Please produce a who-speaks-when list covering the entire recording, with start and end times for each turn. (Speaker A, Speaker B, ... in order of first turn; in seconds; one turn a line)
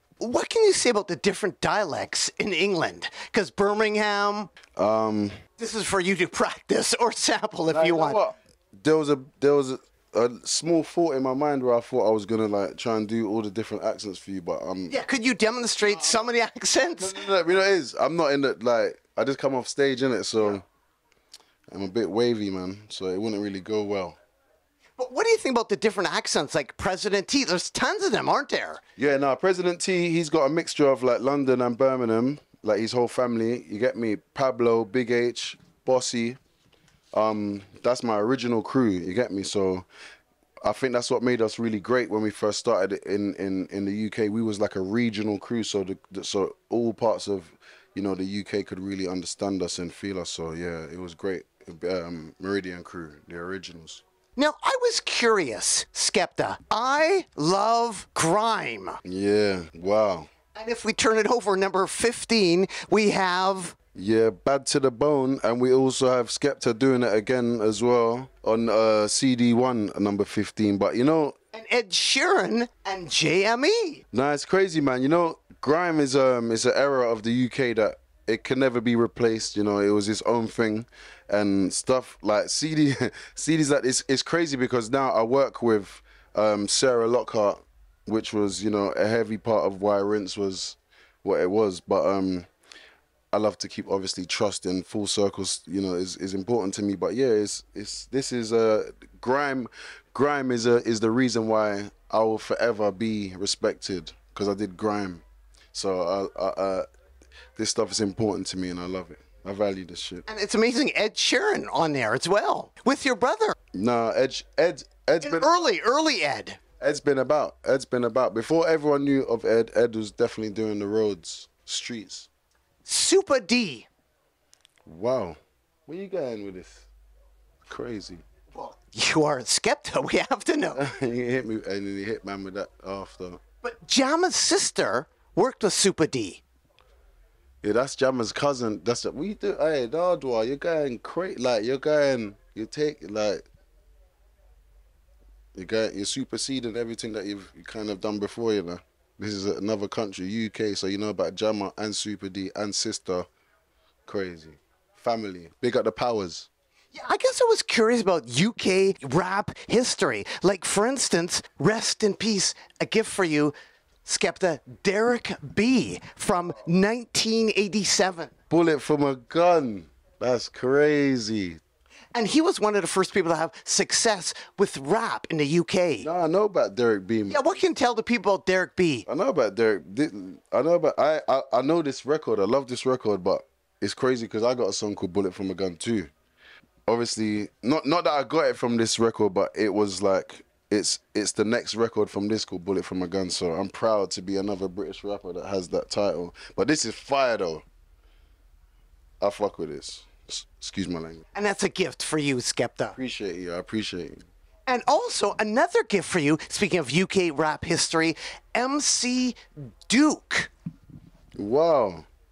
Speaker A: 0.2-4.5
Speaker B: 4.8-5.3
Speaker A: 5.6-8.2
Speaker B: 7.7-15.0
Speaker A: 14.9-17.2
Speaker B: 15.8-16.3
Speaker B: 17.0-20.6
Speaker B: 21.7-24.2
Speaker A: 25.0-28.8
Speaker B: 29.0-36.4
Speaker B: 37.1-39.9
Speaker B: 40.6-54.0
Speaker A: 54.4-59.0
Speaker B: 59.0-60.3
Speaker A: 60.5-63.8
Speaker B: 63.9-71.3
Speaker A: 71.5-74.0
Speaker B: 74.1-92.5
Speaker B: 93.3-106.8
Speaker B: 107.5-110.2
Speaker A: 110.3-113.5
Speaker B: 113.7-115.5
Speaker A: 115.2-116.6
Speaker B: 116.8-122.3
Speaker A: 122.8-123.9
Speaker B: 124.8-126.9
Speaker B: 127.7-128.2
Speaker A: 128.5-130.8
Speaker B: 130.8-133.4
Speaker A: 133.6-136.4
Speaker B: 137.6-143.4
Speaker B: 145.5-153.3
Speaker B: 154.1-156.5
Speaker A: 156.9-163.5
Speaker A: 164.0-168.3
Speaker B: 168.5-171.6
Speaker A: 172.1-176.1
Speaker B: 176.0-177.5
Speaker A: 177.3-179.1
Speaker B: 179.1-186.1
Speaker B: 186.9-197.6
Speaker B: 199.2-201.2
Speaker A: 201.3-203.0
Speaker B: 202.9-204.2
Speaker A: 204.7-210.5
Speaker B: 211.3-212.1